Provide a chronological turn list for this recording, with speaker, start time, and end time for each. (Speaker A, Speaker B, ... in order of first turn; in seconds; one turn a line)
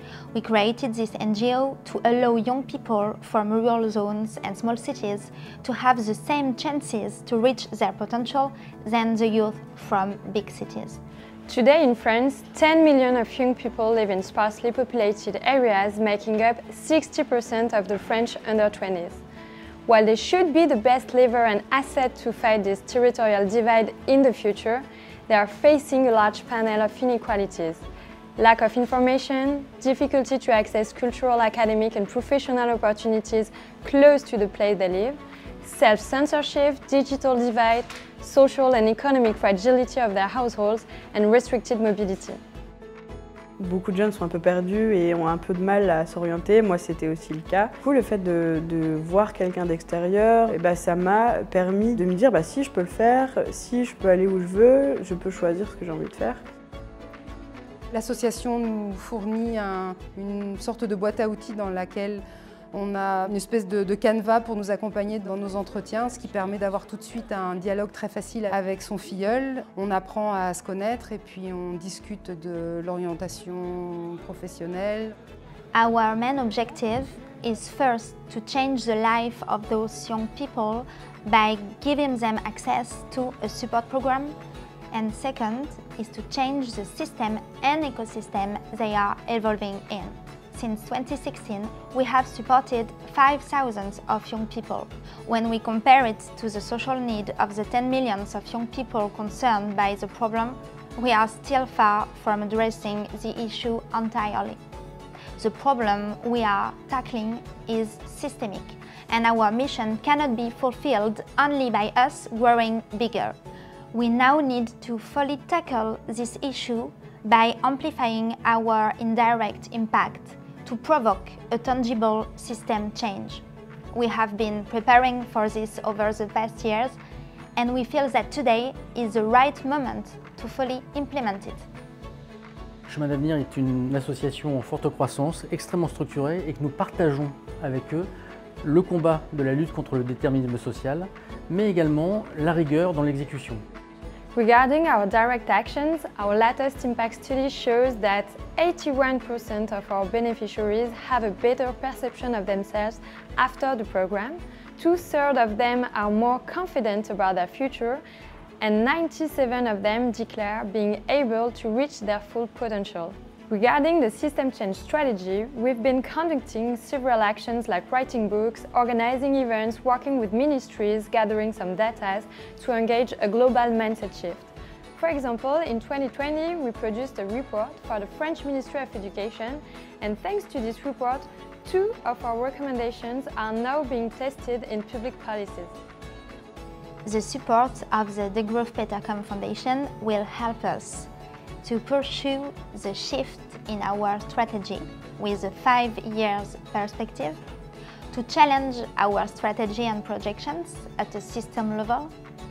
Speaker A: 0.3-11.0
Speaker B: 11.5-19.2
Speaker B: 19.9-27.9
Speaker B: 28.4-42.4
Speaker C: 43.6-56.4
Speaker D: 57.9-75.2
Speaker A: 75.7-84.3
Speaker A: 84.9-104.6
Speaker A: 105.4-113.3
Speaker A: 113.9-127.0
Speaker A: 127.6-131.7
Speaker E: 132.9-138.1
Speaker E: 138.6-143.6
Speaker B: 144.3-158.0
Speaker B: 158.6-185.7
Speaker A: 187.1-191.1
Speaker A: 191.6-197.4
Speaker A: 198.1-202.1